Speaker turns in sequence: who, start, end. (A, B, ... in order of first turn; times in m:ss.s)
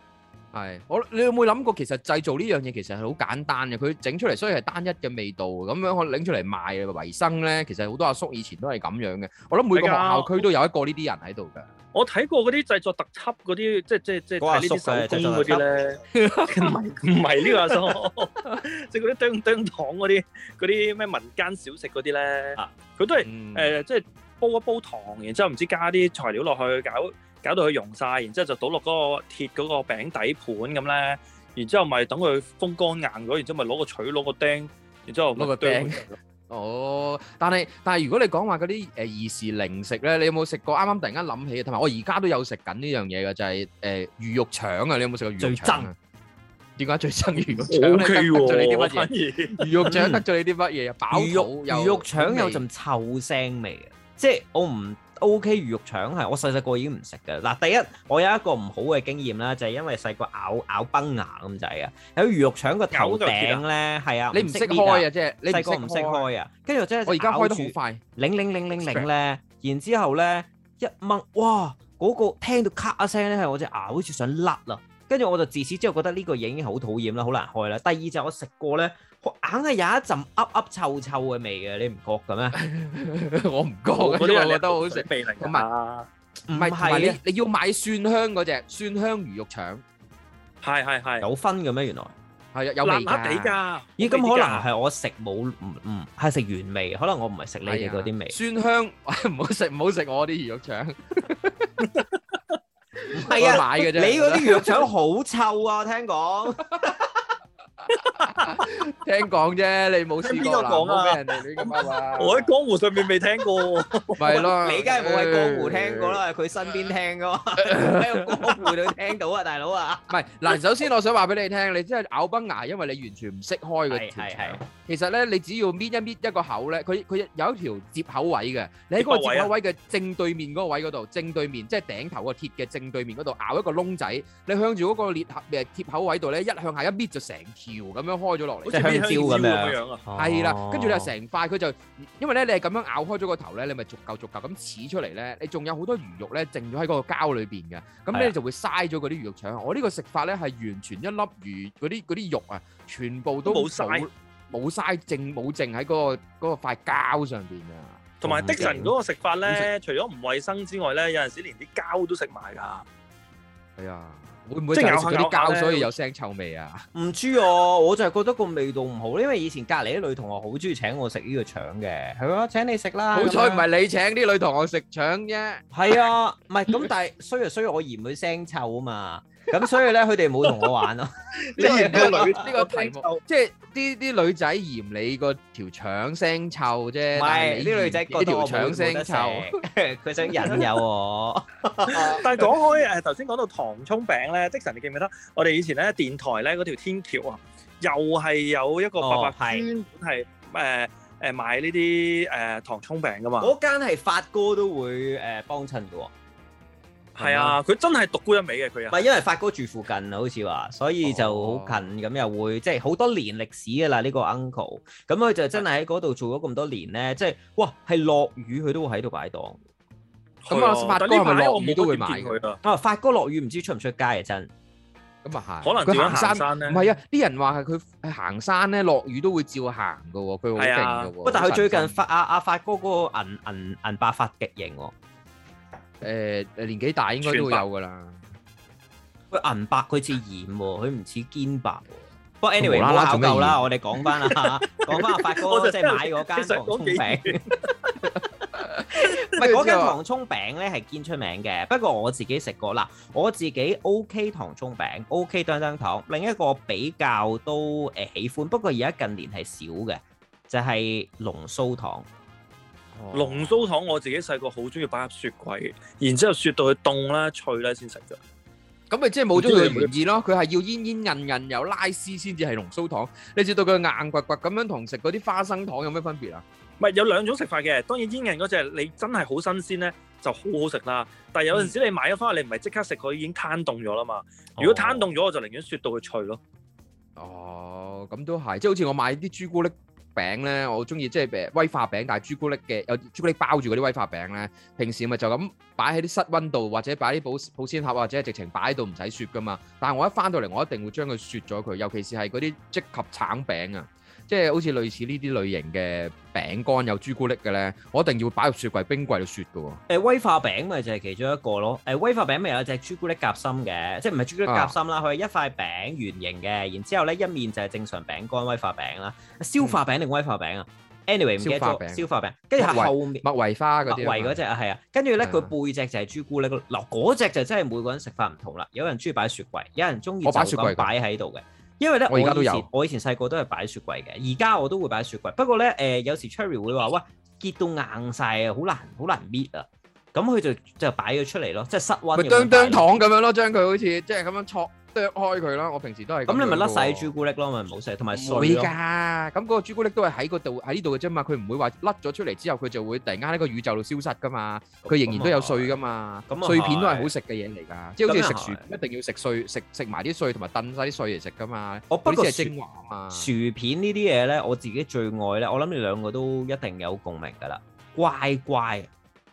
0:00.5-0:11.7 A
0:09.7-0:10.5 B
0:11.9-0:36.2 B
0:14.4-0:15.6 C
0:16.1-0:16.8 A
0:23.2-0:23.7 A
0:35.4-0:45.9 A
0:45.4-0:45.9 C
0:46.8-0:52.6 A
0:47.7-0:49.7 B
0:49.9-0:50.2 C
0:51.1-1:22.5 C
1:02.9-1:03.6 B
1:04.3-1:06.2 A
1:07.0-1:08.0 A
1:08.8-1:09.1 A
1:22.5-1:25.6 A
1:23.9-1:26.1 B
1:26.5-1:27.2 C
1:26.5-1:29.8 A
1:30.6-1:31.2 B
1:31.2-1:32.1 C
1:32.5-1:33.5 A
1:32.8-1:34.6 B
1:34.0-1:38.4 C
1:37.6-1:41.7 A
1:43.1-1:47.2 C
1:43.2-1:44.8 A
1:48.0-1:52.5 A
1:50.2-1:54.4 B
1:54.2-1:56.2 A
1:54.3-2:00.1 C
1:57.6-1:58.7 A
2:00.1-2:19.1 A
2:03.9-2:04.6 C
2:09.0-2:09.5 B
2:18.6-2:20.0 B
2:18.7-2:21.1 C
2:20.2-2:38.0 A
2:33.4-2:34.1 B
2:38.2-2:42.8 B
2:38.2-2:38.9 C
2:43.8-2:46.9 A
2:44.7-2:45.9 B
2:46.9-2:53.6 C
2:53.1-2:55.6 A
2:55.7-3:02.4 C
3:01.5-3:03.2 B
3:01.6-3:09.5 A
3:07.1-3:12.5 C
3:11.9-3:23.5 B
3:19.0-3:19.7 C
3:23.4-3:26.1 C
3:27.2-3:29.0 B
3:27.2-3:27.6 A
3:28.9-3:39.6 C
3:31.0-3:31.9 A
3:40.4-3:42.6 B
3:40.5-3:42.4 A
3:42.6-3:44.5 C
3:45.2-3:52.0 A
3:45.6-3:46.8 B
3:50.6-3:51.1 B
3:51.2-3:54.9 C
3:56.0-3:58.2 A
3:57.2-3:57.6 B
3:59.3-4:01.9 C
4:02.4-4:07.6 C
4:02.6-4:03.6 A
4:04.9-4:07.4 B
4:08.6-4:09.9 A
4:08.9-4:22.0 C
4:22.9-4:23.6 A
4:23.1-4:28.2 B
4:28.9-4:36.4 A
4:29.4-4:29.9 B
4:36.8-4:46.4 B
4:44.6-4:45.1 C
4:47.2-5:09.8 A
5:09.9-5:23.2 C
5:14.4-5:14.7 A
5:21.4-5:22.0 A
5:22.6-5:24.4 A
5:23.8-5:42.8 C
5:25.2-5:25.5 A
5:30.2-5:30.9 A
5:32.1-5:32.7 A
5:42.1-5:47.1 A
5:46.3-5:48.7 C
5:48.1-6:03.3 A
5:54.8-5:55.7 C
5:56.3-5:57.1 C
5:58.0-5:58.6 C
6:01.9-6:02.5 C
6:03.1-6:08.9 C